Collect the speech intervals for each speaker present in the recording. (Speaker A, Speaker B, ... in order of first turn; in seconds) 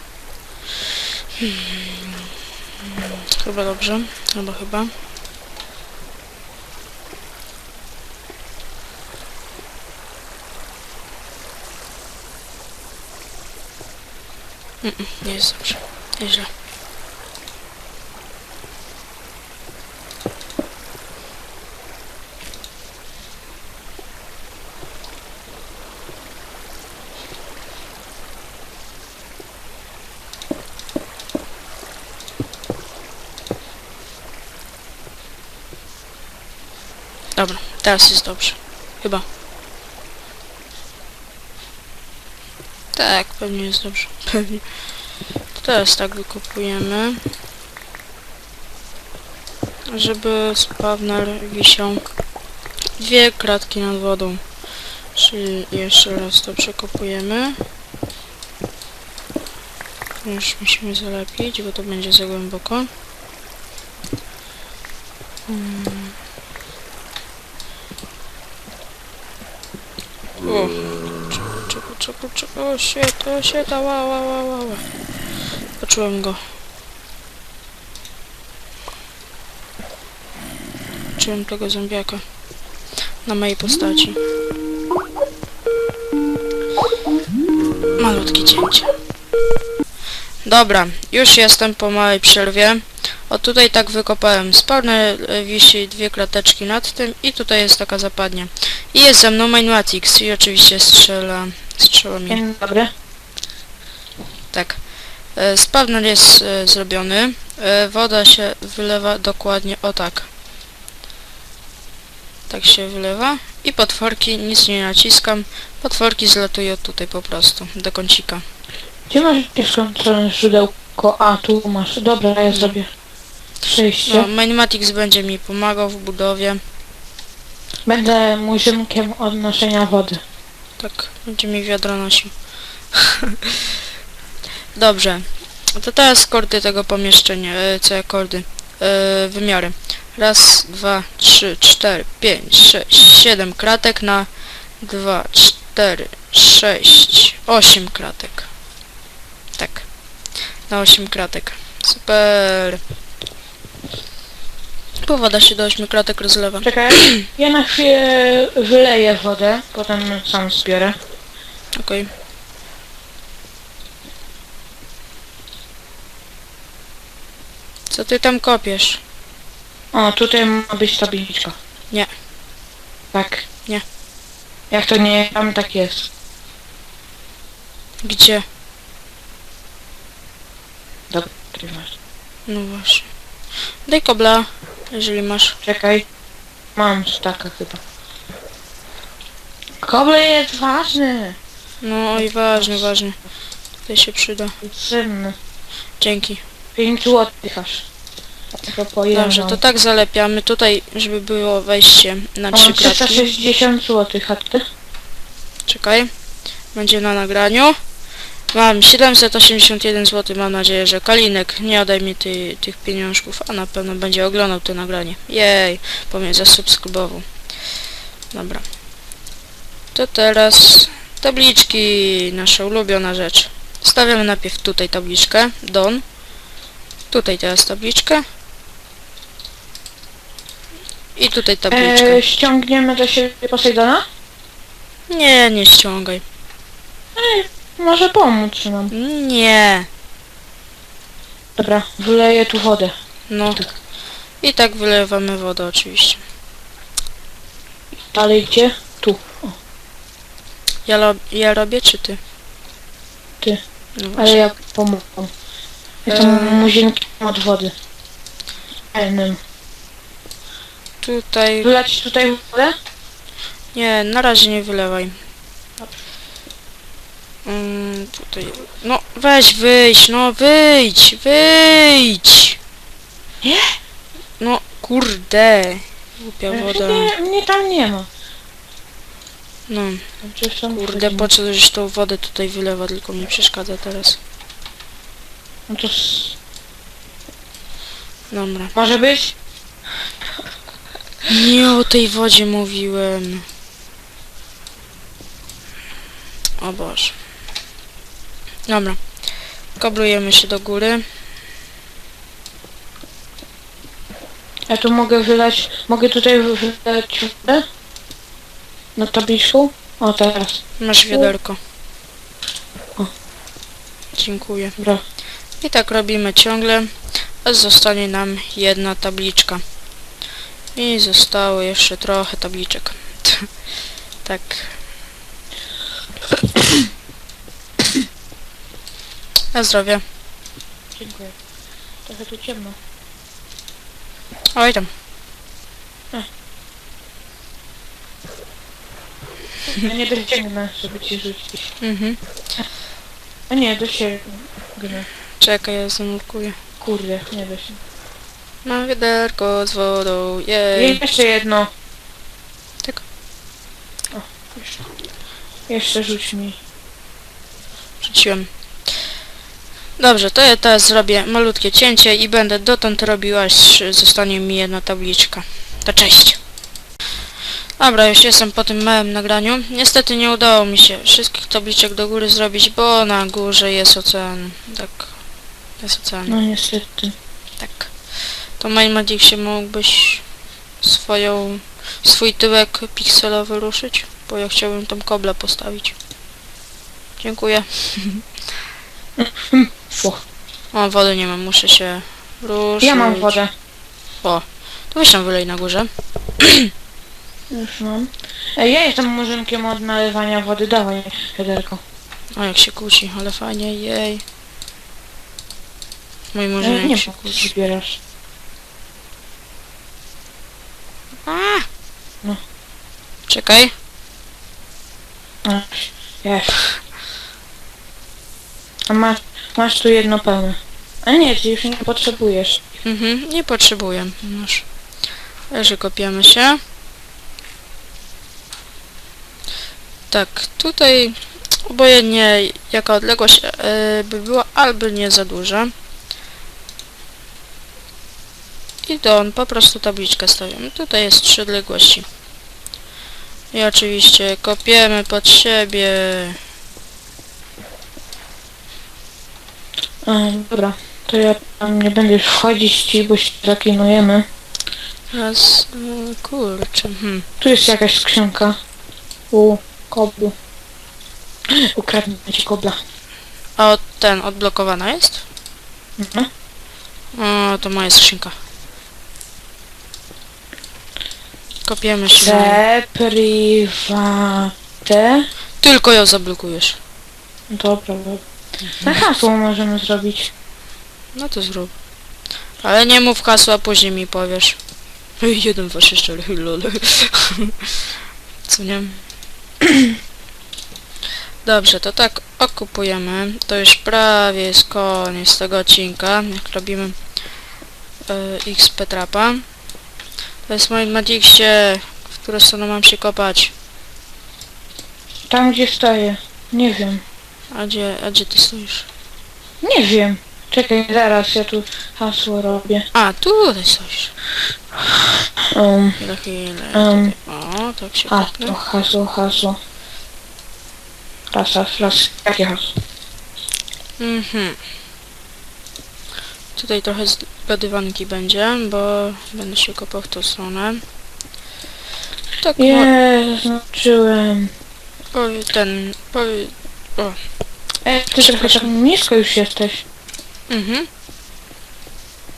Speaker A: 1.4-2.2, 2.8-4.9, 14.8-16.5, 37.4-39.2, 42.9-44.8, 45.5-47.2, 49.9-52.0, 53.0-54.4, 55.1-57.6, 60.2-62.9, 65.5-66.1, 70.4-74.8, 75.8-76.4, 81.2-82.2, 83.2-84.2, 88.0-88.9, 90.4-102.4, 104.5-104.8, 105.3-110.3, 112.5-118.4, 122.5-122.7, 124.1-126.6, 130.8-132.3, 132.9-133.8, 134.7-148.5, 149.6-149.9, 150.7-152.8, 155.0-157.3, 161.7-162.1, 167.9-169.0, 178.0-178.4, 182.5-183.1, 183.8-185.6, 191.8-193.2, 193.8-194.6, 196.0-196.4, 199.1-203.3, 205.7-206.1, 206.7-207.8, 208.5-217.3, 218.3-218.7, 219.9-226.0, 227.1-228.2, 231.2-232.2, 235.1-236.2, 238.9-239.9, 243.3-243.6, 244.4-246.2, 250.8-252.2, 253.9-254.4, 256.1-256.7, 261.0-261.7, 263.7-265.2, 267.4-272.6, 274.4-277.1, 279.7-280.1, 280.7-284.2, 288.3-288.7, 291.2-293.4, 296.6-297.1, 298.7-299.0, 299.8-301.0, 310.8-311.6, 314.1-314.7, 315.6-316.9, 317.4-319.6, 320.7-323.5, 324.2-324.8, 329.5-330.0, 334.5-334.9, 341.8-342.2, 345.4-346.6, 348.6-351.0, 358.0-359.1, 360.0-366.4, 367.8-375.2, 375.8-376.4, 377.6-380.2, 380.8-385.9, 387.2-388.2, 390.7-393.3, 394.2-396.7, 402.3-404.2, 406.3-407.5, 411.2-411.6, 413.3-413.7, 422.8-424.6, 425.5-426.6, 430.1-435.7, 438.9-442.1, 443.5-446.4, 455.1-457.2, 463.6-465.2, 467.1-468.3, 471.6-472.6, 475.6-476.8, 481.1-481.7, 482.6-484.6, 485.2-489.0, 491.4-496.9, 498.1-499.4, 500.4-503.5, 507.5-508.9, 512.9-514.1, 516.0-518.6, 524.0-524.6, 526.5-530.8, 532.4-532.9, 535.1-537.2, 538.1-538.7, 540.5-540.9
Speaker B: 102.3-102.9, 119.1-122.9, 123.6-124.3, 127.8-130.2, 156.6-160.9, 169.9-171.5, 173.1-173.4, 174.7-176.1, 181.1-181.9, 185.6-186.0, 186.8-187.8, 189.8-191.3, 192.1-192.9, 194.6-195.3, 196.8-197.9, 198.5-199.6, 202.5-204.6, 231.7-234.0, 237.2-238.9, 241.6-242.9, 248.1-249.5, 254.2-255.3, 256.1-257.7, 258.9-259.4, 261.6-262.7, 273.4-273.7, 276.5-278.1, 280.2-281.3, 285.7-286.4, 288.7-289.3, 304.7-307.6, 308.9-311.3, 314.8-315.0, 330.9-331.3, 332.1-332.8, 339.7-341.7, 343.5-345.1, 346.8-347.8, 350.7-351.7, 354.1-354.8, 355.7-356.6, 376.3-377.1, 389.2-390.2, 392.8-393.5, 397.5-401.8, 406.6-408.0, 415.4-416.6, 418.9-422.6, 450.1-454.2, 457.4-458.5, 459.3-460.3, 461.7-462.8, 466.0-466.3, 472.1-475.3, 477.5-478.2, 478.8-480.3, 505.3-507.0, 509.6-512.9, 515.5-516.0, 516.7-517.1, 518.1-519.6, 521.3-522.7, 532.6-534.5, 537.8-539.8